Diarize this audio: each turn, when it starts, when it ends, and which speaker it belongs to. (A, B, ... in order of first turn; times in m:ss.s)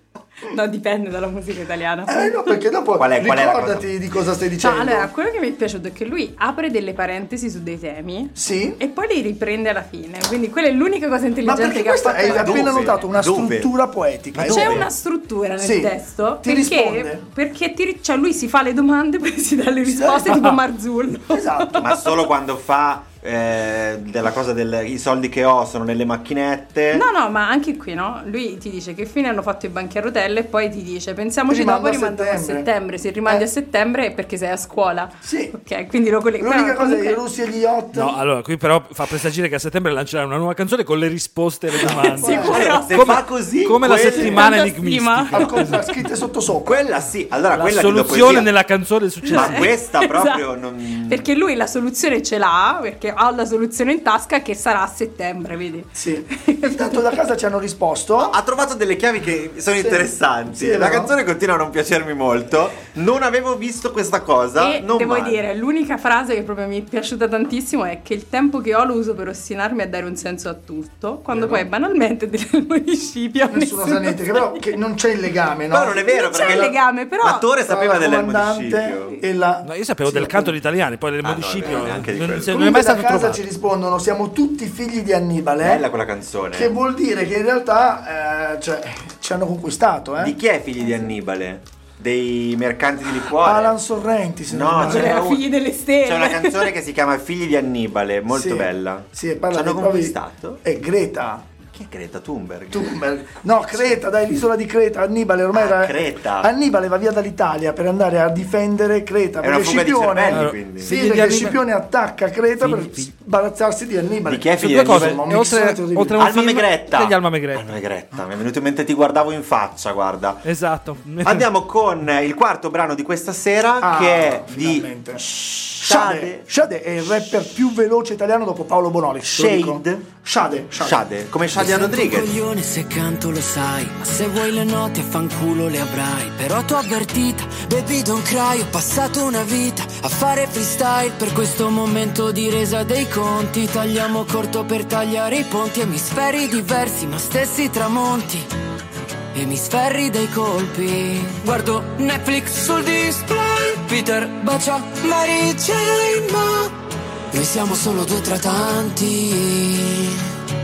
0:00.4-0:02.3 A
0:02.1-0:05.1 B
0:03.0-0:03.9 C
0:04.6-0:13.0 A
0:08.4-0:08.8 B
0:11.4-0:14.9 B
0:12.2-0:13.7 C
0:14.3-0:14.9 C
0:14.4-0:21.9 A
0:15.6-0:17.2 B
0:19.9-0:20.6 B
0:21.3-0:21.9 B
0:21.8-0:27.0 C
0:26.9-0:37.2 A
0:31.5-0:32.7 B
0:35.2-0:35.5 B
0:36.4-0:38.2 B
0:37.9-0:45.9 D
0:41.8-0:44.4 C
0:41.8-0:43.0 A
0:41.9-0:42.8 B
0:44.2-0:45.7 A
0:45.3-0:46.9 B
0:46.6-0:48.5 C
0:47.5-0:49.7 D
0:49.3-0:50.4 A
0:49.3-0:51.2 C
0:51.0-0:57.1 A
0:55.9-0:58.4 B
0:58.2-1:05.4 C
0:59.8-1:01.1 B
1:04.6-1:14.6 A
1:11.3-1:11.6 B
1:13.5-1:16.0 B
1:15.7-1:19.2 C
1:16.1-1:17.5 A
1:17.6-1:20.5 B
1:19.6-1:23.4 D
1:21.2-1:22.6 C
1:21.7-1:25.9 B
1:25.6-1:26.7 C
1:26.5-1:30.4 B
1:30.2-1:33.8 C
1:33.3-1:35.2 B
1:34.5-1:35.4 C
1:34.8-1:36.7 A
1:36.0-1:40.6 C
1:38.3-1:41.5 B
1:41.6-1:43.0 C
1:42.7-1:56.2 B
1:45.5-1:46.5 C
1:49.4-1:51.0 C
1:50.3-1:51.6 D
1:52.6-1:53.1 D
1:54.2-1:55.2 C
1:54.6-1:57.7 D
1:56.2-2:00.4 C
2:00.4-2:01.5 D
2:01.2-2:06.5 C
2:03.8-2:05.2 B
2:05.8-2:11.0 B
2:09.2-2:10.1 C
2:10.8-2:12.3 C
2:11.5-2:28.5 E
2:29.3-2:36.8 E
2:37.3-2:40.3 E